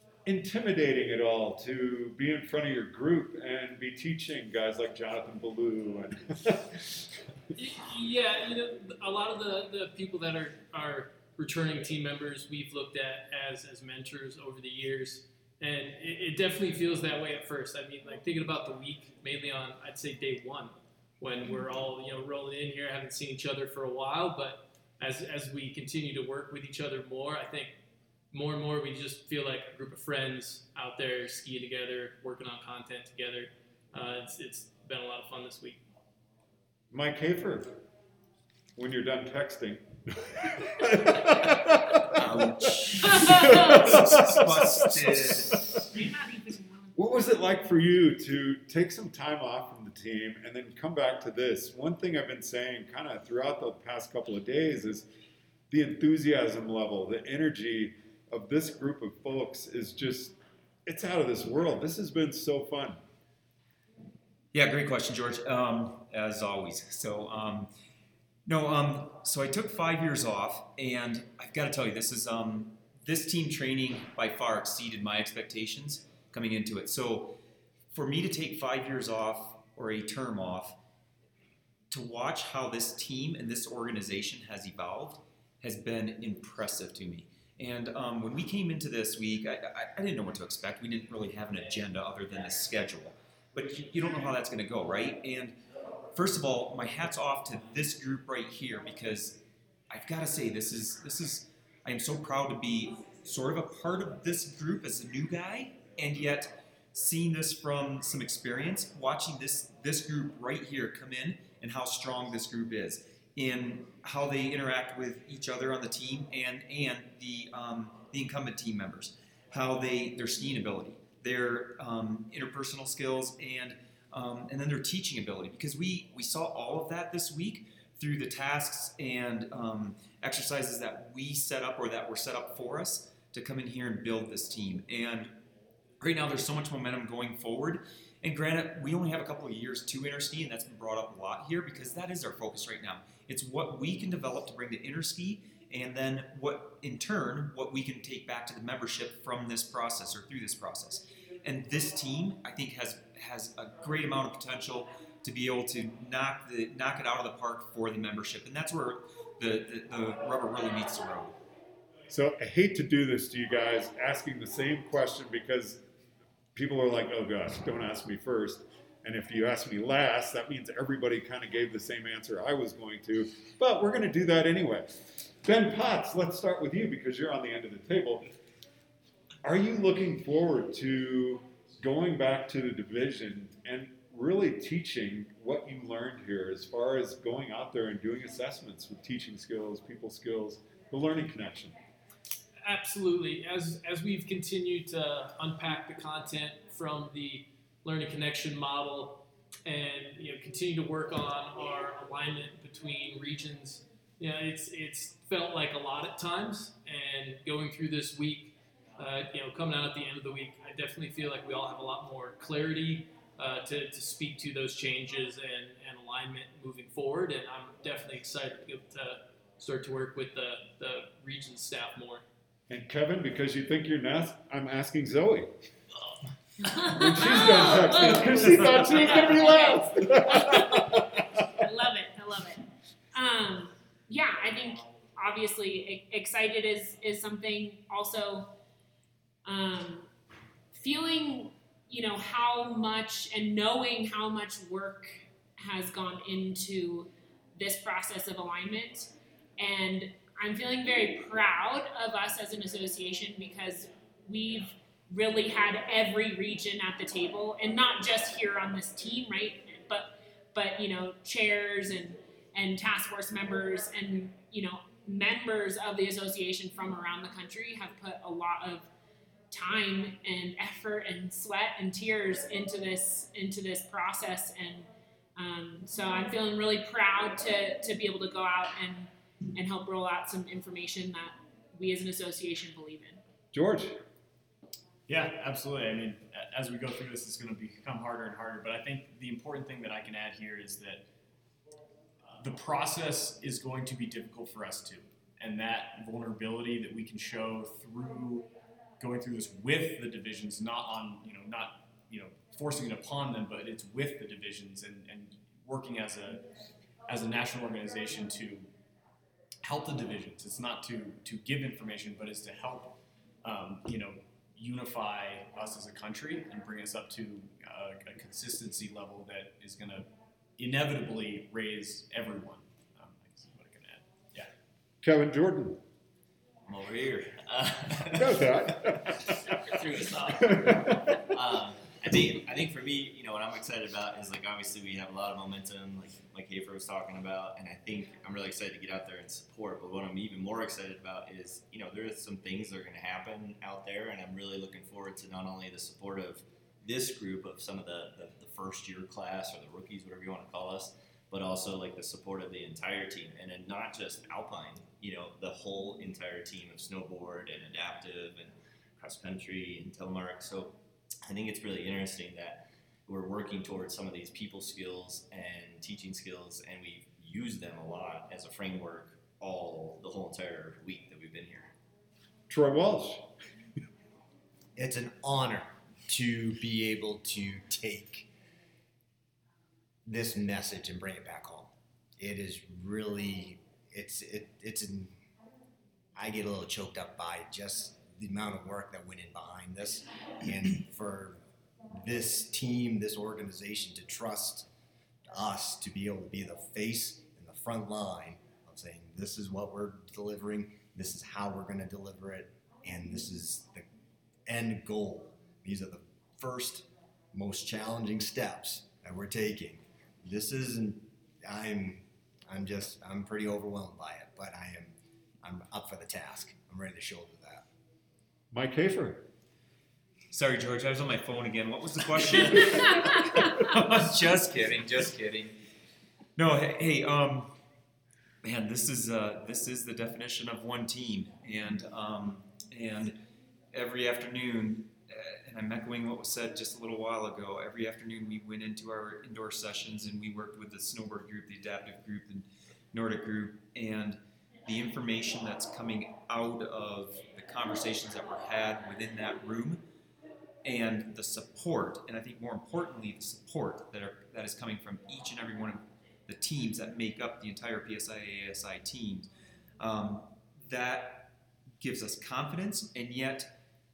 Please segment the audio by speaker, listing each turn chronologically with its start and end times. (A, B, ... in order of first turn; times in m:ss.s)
0:00.2-0:07.0 A
0:07.6-0:27.7 B
0:28.3-0:35.8 B
0:36.9-0:37.8 A
0:38.8-0:42.2 A
0:42.1-0:45.6 C
0:43.0-0:44.1 A
0:43.2-0:43.6 D
0:44.6-0:45.0 A
0:45.8-0:47.0 D
0:47.0-0:55.1 A
0:55.7-1:03.0 A
1:04.5-1:07.7 C
1:08.4-1:17.4 C
1:17.9-1:20.8 C
1:21.9-1:35.5 C
1:36.1-2:15.3 C
2:16.0-2:41.4 C
2:42.1-2:45.8 A
2:46.5-2:58.3 A
2:59.4-3:11.8 A
3:12.6-3:42.2 B
3:42.7-3:45.5 A
3:46.6-3:58.5 D
3:46.9-3:51.2 A
3:59.4-4:00.1 D
4:00.7-4:28.9 D
4:29.5-4:43.2 D
4:43.5-4:44.0 A
4:45.1-4:51.0 E
4:52.2-4:58.5 E
4:59.0-5:06.4 E
5:07.1-5:08.7 E
5:09.6-5:24.5 E
5:25.0-5:25.8 A
5:26.6-6:11.7 F
5:28.2-5:29.3 A
5:30.6-5:31.2 A
6:12.5-6:13.3 A
6:14.8-6:18.3 G
6:20.0-6:25.1 G
6:26.1-6:31.4 G
6:31.9-6:34.7 G
6:35.3-6:43.8 G
6:44.5-6:57.6 G
6:58.5-6:59.2 A
7:00.3-7:05.5 C
7:06.4-7:07.5 C
7:08.4-7:13.1 C
7:13.7-7:29.8 C
7:30.6-7:39.3 C
7:39.8-7:43.5 C